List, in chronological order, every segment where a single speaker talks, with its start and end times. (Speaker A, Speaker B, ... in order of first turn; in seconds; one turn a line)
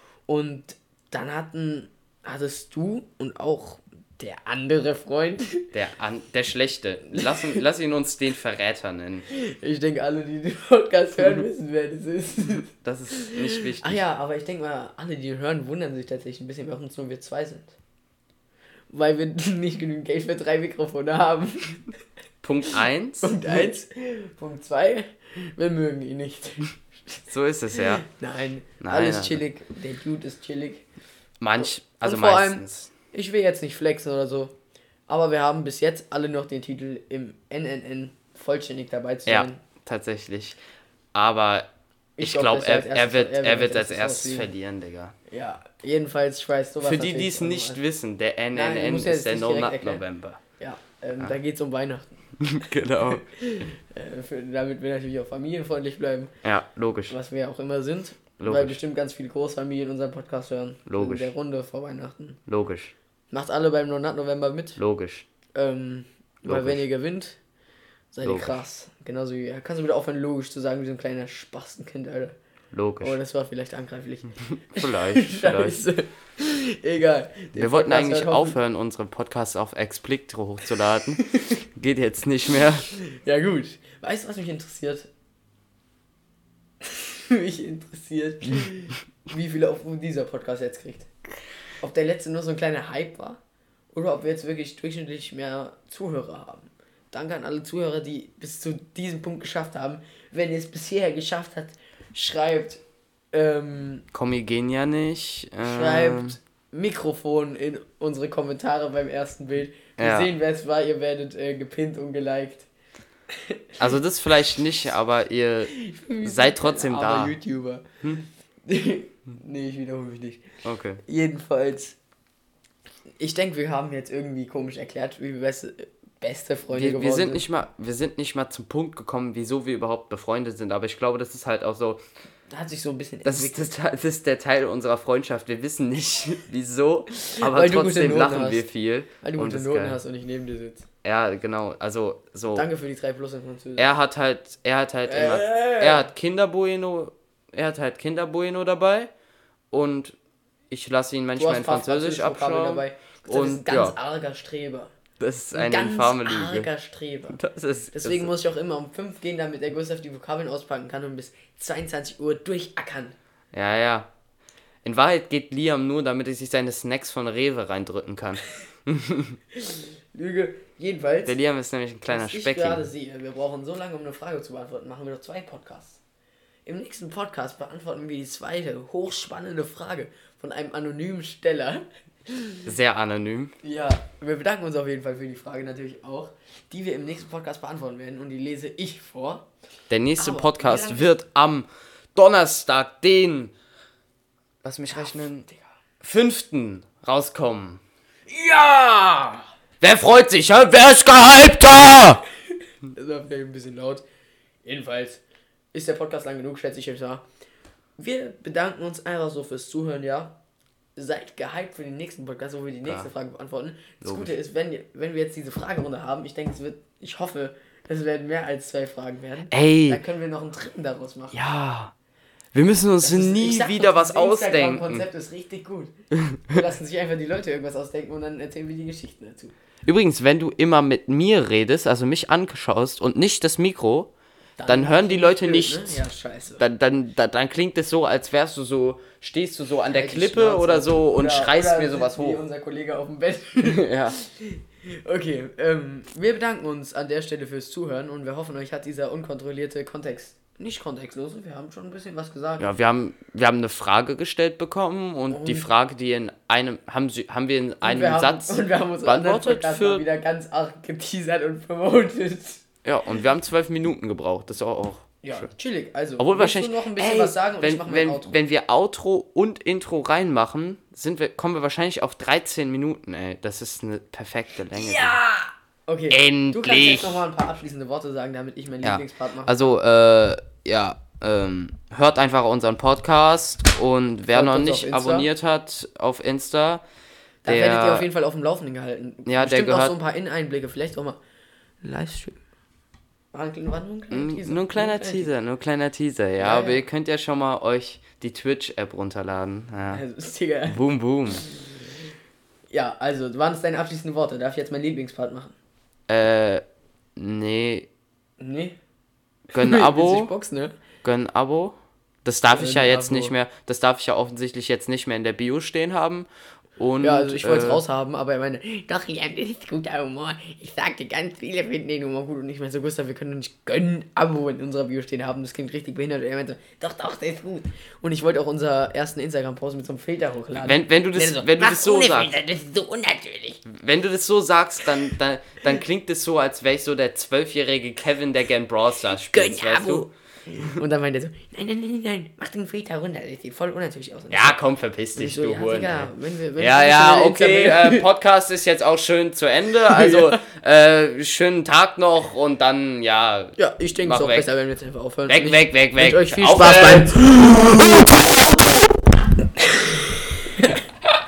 Speaker A: 0.3-5.7
Speaker B: 5.7-9.3
Speaker A: 7.2-7.6
Speaker A: 9.3-17.7
Speaker B: 12.8-14.0
Speaker A: 18.9-21.9
Speaker B: 22.4-23.7
Speaker A: 23.2-27.2
Speaker B: 27.3-28.1
Speaker A: 28.0-30.9
Speaker B: 28.8-29.4
Speaker B: 31.4-32.9
Speaker A: 31.6-34.5
Speaker A: 35.1-39.6
Speaker B: 39.3-40.6
Speaker B: 41.1-41.7
Speaker A: 42.2-44.5
Speaker B: 42.2-45.1
Speaker A: 45.3-47.8
Speaker B: 46.8-50.4
Speaker A: 48.5-50.0
Speaker A: 50.6-52.2
Speaker B: 52.4-53.2
Speaker A: 53.1-56.3
Speaker B: 56.4-57.1
Speaker A: 57.1-62.4
Speaker B: 58.4-58.8
Speaker B: 60.9-61.3
Speaker B: 62.5-62.9
Speaker A: 63.3-64.8
Speaker B: 64.8-65.3
Speaker A: 65.5-67.4
Speaker B: 66.5-66.8
Speaker A: 68.1-72.3
Speaker B: 68.2-68.6
Speaker B: 72.7-73.2
Speaker A: 73.0-78.6
Speaker B: 74.5-75.8
Speaker B: 77.5-81.2
Speaker A: 81.2-81.5
Speaker B: 81.8-82.9
Speaker A: 82.9-85.1
Speaker A: 86.8-91.1
Speaker A: 91.8-93.4
Speaker A: 93.9-102.8
Speaker A: 103.3-104.1
Speaker B: 104.1-106.4
Speaker A: 105.6-112.7
Speaker B: 110.0-110.3
Speaker B: 113.8-117.4
Speaker A: 115.8-117.9
Speaker A: 118.7-120.5
Speaker B: 120.6-121.0
Speaker A: 121.0-122.0
Speaker A: 123.2-127.4
Speaker B: 126.7-132.0
Speaker A: 132.5-133.7
Speaker B: 133.2-140.0
Speaker A: 137.3-138.7
Speaker A: 139.2-140.8
Speaker B: 141.0-142.7
Speaker A: 142.6-144.0
Speaker B: 143.8-149.1
Speaker A: 145.1-146.1
Speaker B: 149.7-150.2
Speaker B: 150.7-154.0
Speaker A: 151.4-154.9
Speaker B: 155.2-156.7
Speaker A: 155.5-157.4
Speaker B: 157.3-158.3
Speaker A: 157.9-163.2
Speaker B: 163.5-164.1
Speaker B: 164.8-169.4
Speaker A: 169.6-171.4
Speaker B: 171.3-172.9
Speaker A: 172.1-176.0
Speaker A: 176.7-182.6
Speaker B: 182.7-183.6
Speaker A: 183.6-189.5
Speaker B: 189.9-193.5
Speaker A: 190.2-191.1
Speaker B: 194.6-195.5
Speaker A: 194.9-195.6
Speaker B: 196.0-197.8
Speaker A: 198.3-199.5
Speaker B: 199.8-202.2
Speaker A: 202.9-204.0
Speaker A: 204.7-205.2
Speaker A: 205.7-207.2
Speaker A: 208.0-210.4
Speaker A: 211.0-221.4
Speaker B: 212.8-213.1
Speaker B: 214.0-214.3
Speaker B: 219.5-220.0
Speaker B: 221.3-221.9
Speaker B: 222.5-225.1
Speaker A: 223.0-225.9
Speaker A: 226.5-229.5
Speaker B: 229.8-234.1
Speaker A: 234.6-236.6
Speaker B: 234.7-236.0
Speaker B: 236.6-242.4
Speaker A: 239.9-252.7
Speaker B: 243.6-244.2
Speaker B: 252.6-260.1
Speaker A: 255.3-255.7
Speaker A: 257.8-262.6
Speaker B: 262.9-265.5
Speaker A: 265.2-268.4
Speaker B: 266.2-275.2
Speaker A: 274.8-279.8
Speaker B: 276.1-277.2
Speaker B: 278.8-286.8
Speaker A: 284.3-285.3
Speaker A: 287.4-291.2
Speaker B: 287.5-288.1
Speaker B: 289.3-290.0
Speaker A: 291.8-292.4
Speaker A: 293.3-295.3
Speaker B: 294.1-300.0
Speaker A: 296.4-296.9
Speaker A: 299.9-300.8
Speaker B: 300.7-301.5
Speaker A: 302.7-305.6
Speaker B: 306.1-306.6
Speaker B: 307.2-307.9
Speaker A: 308.4-308.8
Speaker B: 309.5-310.3
Speaker A: 309.6-310.8
Speaker B: 311.0-317.8
Speaker A: 312.5-313.4
Speaker A: 317.0-333.6
Speaker B: 330.6-332.4
Speaker B: 333.7-340.1
Speaker A: 339.1-344.6
Speaker B: 344.3-354.5
Speaker A: 345.2-348.1
Speaker A: 349.9-350.2
Speaker A: 353.6-358.1
Speaker B: 355.3-357.9
Speaker A: 359.6-360.7